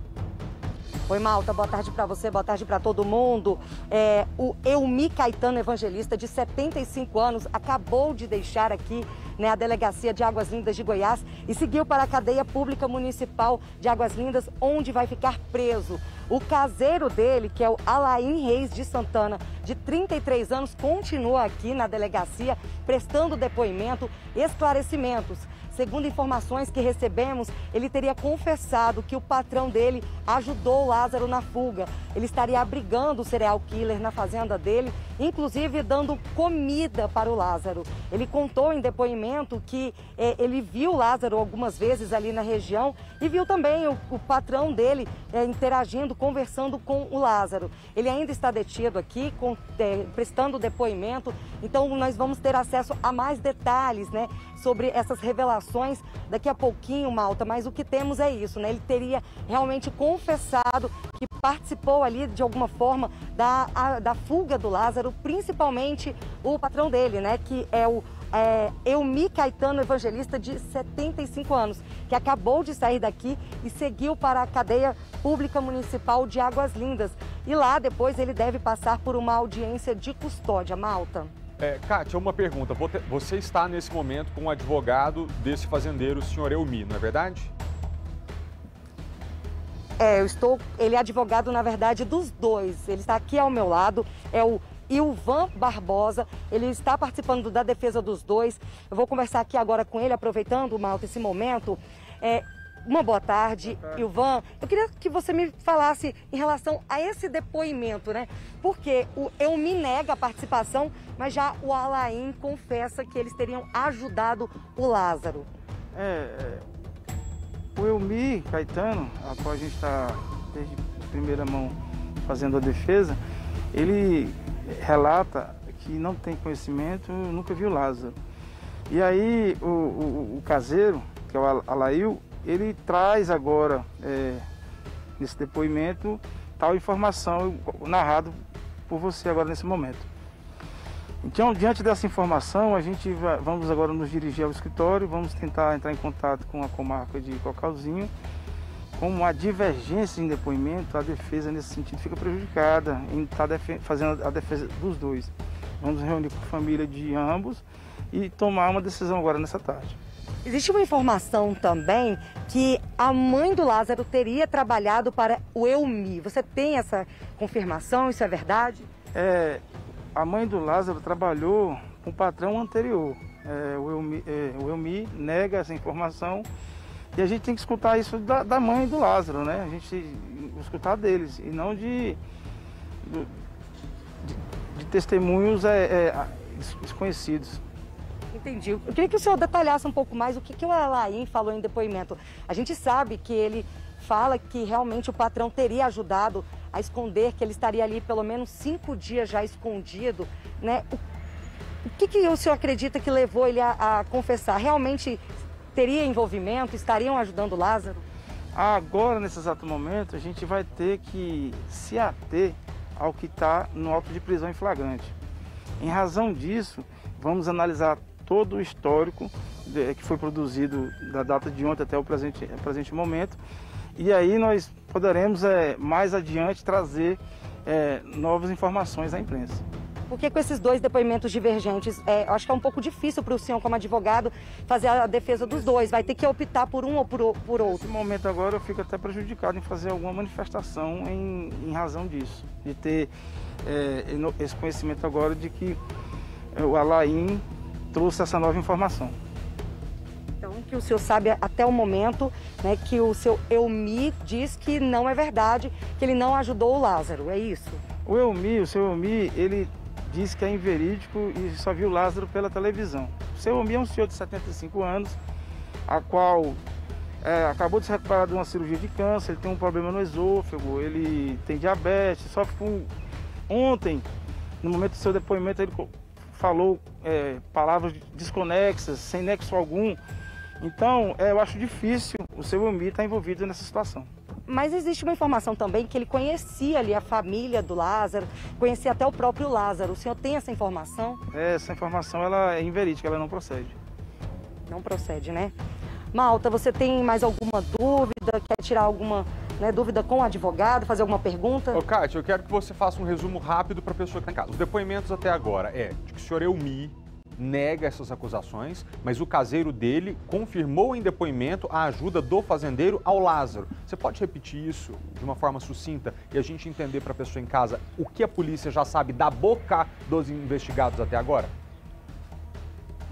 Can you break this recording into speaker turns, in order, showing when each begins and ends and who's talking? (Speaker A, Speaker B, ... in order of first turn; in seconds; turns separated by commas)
Speaker A: 1.1-81.3, Speaker B: 81.6-87.5, Speaker A: 90.0-115.5, Speaker C: 115.9-116.6, Speaker C: 117.7-123.2, Speaker C: 123.7-128.2, Speaker C: 128.9-134.4, Speaker C: 135.2-140.1, Speaker C: 141.2-148.1, Speaker C: 149.0-160.0, Speaker A: 160.4-168.9, Speaker C: 169.1-169.6, Speaker C: 170.1-176.5, Speaker C: 177.1-182.2, Speaker C: 183.0-183.3, Speaker C: 184.2-187.6, Speaker A: 188.3-201.0, Speaker A: 201.9-205.2, Speaker A: 205.7-208.0, Speaker C: 208.5-215.2, Speaker C: 215.8-223.4, Speaker C: 223.9-229.6, Speaker A: 230.1-237.9, Speaker C: 237.6-243.1, Speaker C: 243.6-245.8, Speaker C: 246.5-249.2, Speaker A: 250.4-257.8, Speaker C: 258.0-265.2, Speaker C: 265.9-266.6, Speaker C: 267.2-272.9, Speaker C: 273.5-274.1, Speaker C: 274.6-280.0, Speaker C: 280.6-284.1, Speaker A: 284.5-291.2, Speaker C: 291.3-293.8, Speaker A: 294.6-295.5, Speaker A: 296.1-301.8, Speaker B: 301.7-321.5